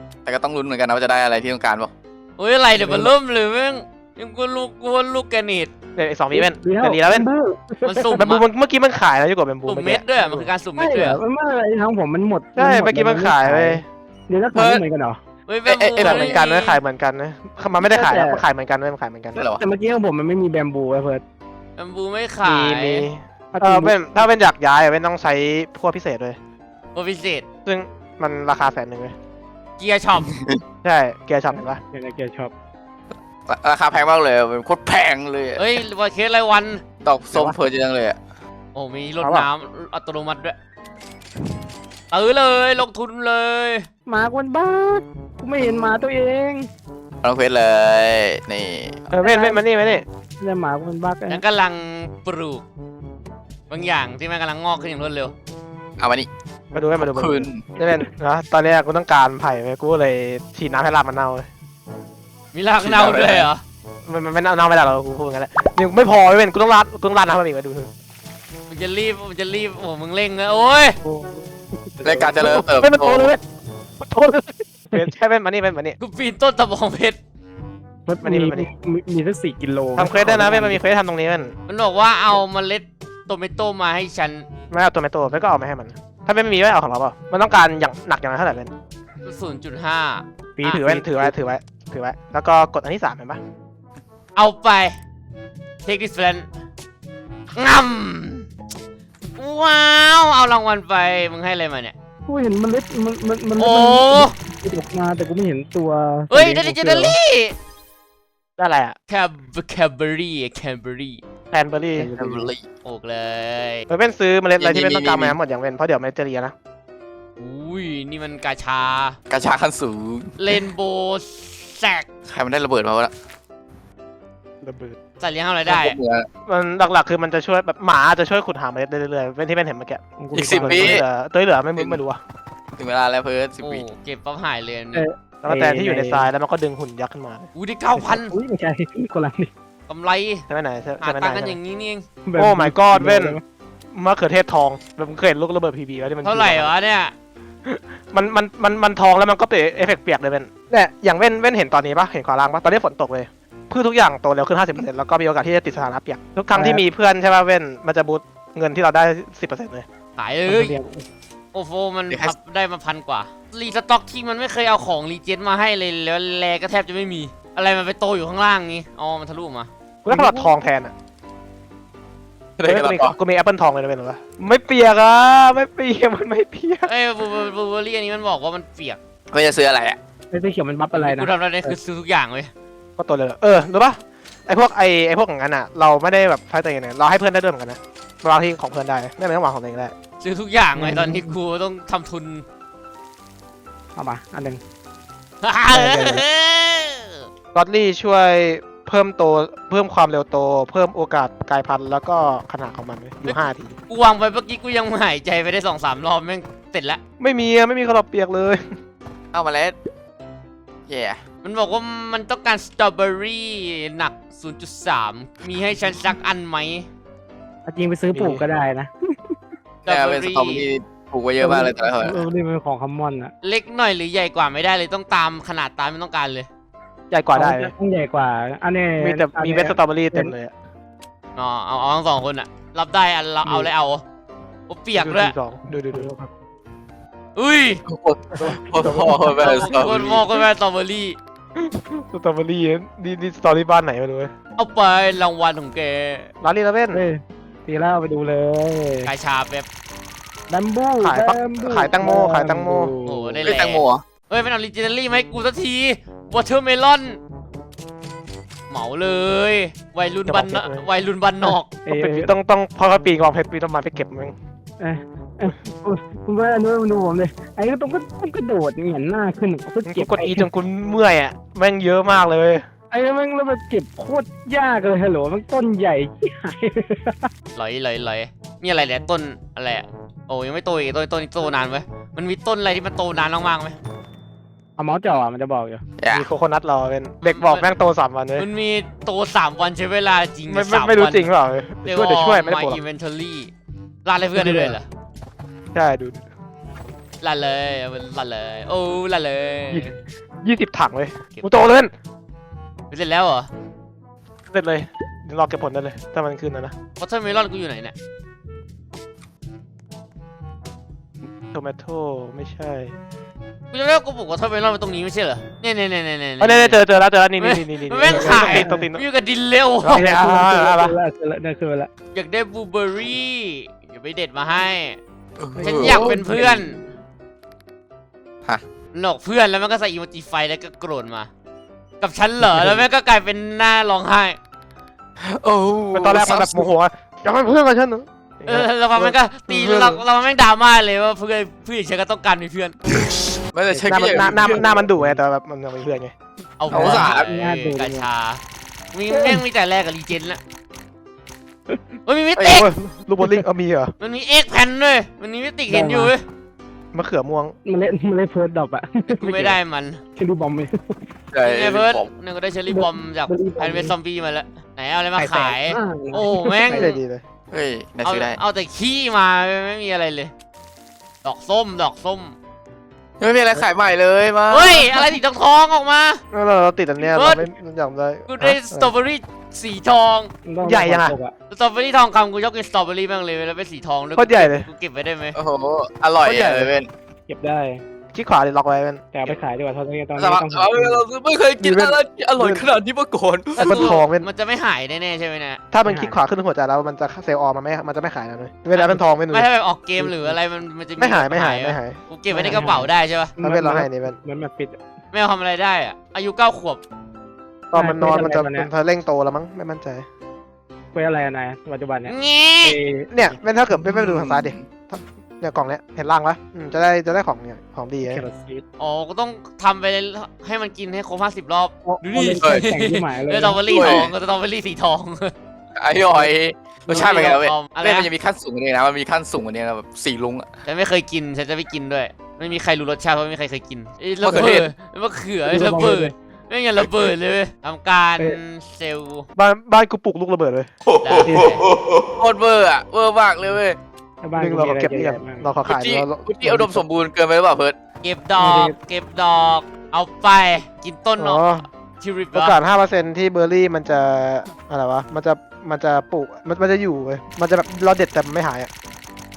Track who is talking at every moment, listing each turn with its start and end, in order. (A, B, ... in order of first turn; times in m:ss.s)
0:00.2-0:01.9 A
0:02.4-0:05.7 B
0:02.8-0:03.1 C
0:06.0-0:07.3 D
0:06.3-0:08.2 C
0:07.8-0:08.4 B
0:08.2-0:10.5 D
0:09.7-0:11.2 B
0:10.8-0:15.2 C
0:12.6-0:13.8 D
0:14.5-0:14.8 A
0:15.5-0:16.8 B
0:15.7-0:16.4 A
0:16.0-0:19.4 D
0:17.8-0:18.4 C
0:19.3-0:19.6 A
0:19.6-0:21.2 C
0:21.8-0:23.1 B
0:22.4-0:26.4 D
0:23.5-0:23.9 C
0:26.9-0:27.4 B
0:27.6-0:29.1 D
0:29.8-0:30.3 B
0:30.3-0:30.6 A
0:30.8-0:31.8 D
0:31.9-0:32.5 C
0:33.5-0:35.8 A
0:35.6-0:36.8 B
0:37.0-0:38.2 A
0:38.7-0:40.6 B
0:39.2-0:39.5 D
0:42.1-0:43.9 B
0:44.1-0:46.7 C
0:45.6-0:46.0 A
0:47.2-0:49.0 A
0:49.1-0:50.0 D
0:49.2-0:49.6 C
0:50.4-0:51.4 C
0:51.3-0:52.6 B
0:53.7-0:55.3 B
0:56.0-0:56.3 A
0:56.7-1:01.5 D
0:57.0-0:57.7 A
1:02.5-1:03.6 B
1:02.8-1:03.5 A
1:04.0-1:07.9 D
1:08.7-1:11.0 B
1:11.0-1:12.7 C
1:12.0-1:13.3 A
1:12.4-1:13.4 D
1:14.0-1:16.0 D
1:16.0-1:17.2 B
1:18.0-1:20.8 C
1:18.2-1:18.7 D
1:20.0-1:21.5 D
1:21.7-1:24.4 B
1:24.7-1:28.7 D
1:29.2-1:30.8 B
1:30.6-1:31.3 C
1:30.6-1:33.4 D
1:34.3-1:35.0 B
1:35.8-1:36.5 B
1:37.5-1:38.5 B
1:39.4-1:41.9 B
1:42.3-1:47.2 C
1:43.6-1:44.3 B
1:46.3-1:47.5 B
1:48.6-1:49.0 D
1:49.1-1:51.2 B
1:51.5-1:52.1 D
1:52.0-1:52.5 C
1:52.2-1:52.6 A
1:52.8-1:53.8 B
1:53.9-1:56.5 D
1:54.6-1:55.4 A
1:57.4-1:59.2 B
1:59.3-2:00.3 A
2:00.4-2:02.0 B
2:02.3-2:03.1 A
2:04.6-2:05.0 D
2:05.2-2:06.0 B
2:05.7-2:06.3 A
2:06.5-2:12.2 D
2:10.2-2:11.0 C
2:10.3-2:11.0 A
2:12.8-2:13.8 A
2:13.6-2:15.0 B
2:14.9-2:16.3 C
2:15.4-2:17.5 D
2:17.6-2:18.3 B
2:18.0-2:19.5 C
2:19.9-2:20.4 B
2:20.5-2:21.6 D
2:21.0-2:22.0 B
2:22.2-2:23.4 C
2:22.4-2:23.4 D
2:23.9-2:26.7 D
2:26.2-2:27.1 B
2:27.6-2:39.8 D
2:36.5-2:36.8 C
2:40.2-2:40.7 B
2:40.5-2:41.0 C
2:41.5-2:49.7 B
2:50.0-2:50.9 D
2:50.1-2:50.5 C
2:52.6-2:53.1 A
2:52.6-2:56.9 D
2:56.8-2:59.0 B
2:59.3-3:00.0 A
3:00.3-3:01.8 C
3:00.9-3:02.5 B
3:03.0-3:09.9 D
3:10.2-3:12.4 B
3:10.8-3:11.4 C
3:14.0-3:14.6 C
3:15.4-3:17.2 B
3:15.7-3:16.2 C
3:15.8-3:16.2 D
3:17.5-3:23.8 D
3:23.9-3:27.0 B
3:27.2-3:28.6 D
3:29.3-3:29.8 A
3:30.9-3:31.2 A
3:31.4-3:36.9 B
3:37.6-3:39.4 C
3:38.1-3:38.4 D
3:39.8-3:40.6 B
3:39.9-3:42.2 A
3:41.4-3:43.3 C
3:43.4-3:46.5 B
3:47.1-3:47.7 D
3:47.3-3:50.3 C
3:49.0-3:50.5 D
3:51.4-3:54.0 B
3:54.7-3:55.3 B
3:55.0-3:56.0 D
3:55.9-3:56.3 C
3:57.4-3:57.8 B
3:57.9-4:00.2 A
3:58.4-3:59.0 C
3:58.8-3:59.5 D
3:59.4-4:01.2 B
4:01.6-4:04.3 D
4:04.6-4:06.3 B
4:06.4-4:07.0 D
4:06.9-4:09.1 C
4:09.0-4:09.6 B
4:10.5-4:13.4 C
4:11.0-4:12.9 D
4:13.0-4:17.2 B
4:13.4-4:14.0 A
4:18.7-4:21.7 B
4:20.3-4:20.8 D
4:21.4-4:22.3 C
4:21.9-4:24.3 D
4:24.8-4:30.5 C
4:29.8-4:32.6 D
4:32.9-4:37.3 C
4:37.6-4:43.8 B
4:44.8-4:45.8 C
4:46.0-4:46.3 A
4:46.1-4:48.4 D
4:47.2-4:47.6 B
4:48.4-4:51.3 B
4:50.5-4:52.8 D
4:51.8-4:53.5 B
4:54.0-4:54.9 B
4:54.4-4:54.7 D
4:55.7-4:56.2 D
4:57.2-5:00.0 B
4:59.7-5:01.9 D
5:02.9-5:03.5 B
5:04.5-5:06.7 D
5:07.0-5:07.9 B
5:11.5-5:13.0 D
5:13.7-5:16.8 B
5:16.4-5:19.0 D
5:17.4-5:20.1 B
5:18.1-5:18.8 C
5:19.8-5:21.0 D
5:19.9-5:21.9 C
5:22.1-5:25.0 B
5:25.4-5:26.1 A
5:25.6-5:26.8 C
5:25.6-5:26.8 B
5:28.9-5:31.3 B
5:32.0-5:34.4 B
5:35.2-5:36.7 A
5:35.9-5:40.0 D
5:38.5-5:42.8 B
5:43.5-5:44.6 A
5:43.7-5:45.2 C
5:43.9-5:46.1 D
5:46.6-5:48.4 B
5:46.7-5:47.3 A
5:46.7-5:48.0 C
5:48.9-5:50.4 B
5:49.1-5:49.4 C
5:52.0-5:52.7 B
5:52.4-5:52.6 A
5:52.4-5:53.9 D
5:54.0-5:56.2 B
5:55.7-5:56.1 C
5:56.9-5:57.5 D
5:57.6-5:59.6 C
5:59.1-6:00.0 B
6:00.2-6:01.0 C
6:01.3-6:02.1 A
6:01.4-6:07.0 B
6:02.7-6:03.9 C
6:05.2-6:06.9 C
6:06.7-6:07.2 D
6:07.5-6:08.4 A
6:08.0-6:10.3 B
6:11.2-6:12.3 B
6:13.2-6:15.2 A
6:14.5-6:16.2 B
6:16.3-6:18.9 D
6:17.0-6:17.4 B
6:18.3-6:20.3 B
6:20.4-6:21.3 C
6:20.6-6:21.2 D
6:21.5-6:25.4 B
6:24.2-6:24.6 D
6:25.3-6:26.9 A
6:26.2-6:26.7 D
6:27.3-6:27.8 C
6:28.1-6:29.1 D
6:29.1-6:31.0 C
6:30.2-6:33.9 A
6:31.6-6:32.7 D
6:33.6-6:35.6 B
6:33.6-6:34.2 D
6:35.7-6:39.5 D
6:35.8-6:36.2 C
6:38.7-6:43.3 B
6:41.0-6:42.7 D
6:42.4-6:44.8 C
6:43.4-6:44.2 D
6:45.1-6:46.8 B
6:47.7-6:50.0 D
6:47.7-6:48.7 C
6:50.9-6:53.1 C
6:52.1-6:52.8 B
6:53.1-6:58.2 D
6:53.7-6:54.6 A
6:58.0-6:58.6 C
6:58.8-7:05.3 B
7:01.8-7:04.0 C
7:03.7-7:04.1 A
7:05.8-7:10.5 A
7:06.9-7:08.1 B
7:10.6-7:19.3 B
7:14.2-7:14.7 A
7:15.5-7:16.1 C
7:19.4-7:20.7 D
7:20.8-7:23.8 A
7:21.0-7:21.6 B
7:21.2-7:21.6 C
7:24.2-7:25.5 C
7:24.4-7:26.8 D
7:25.7-7:27.8 A
7:28.0-7:31.4 B
7:28.4-7:28.8 C
7:31.2-7:31.6 D
7:32.0-7:32.6 B
7:32.3-7:38.7 D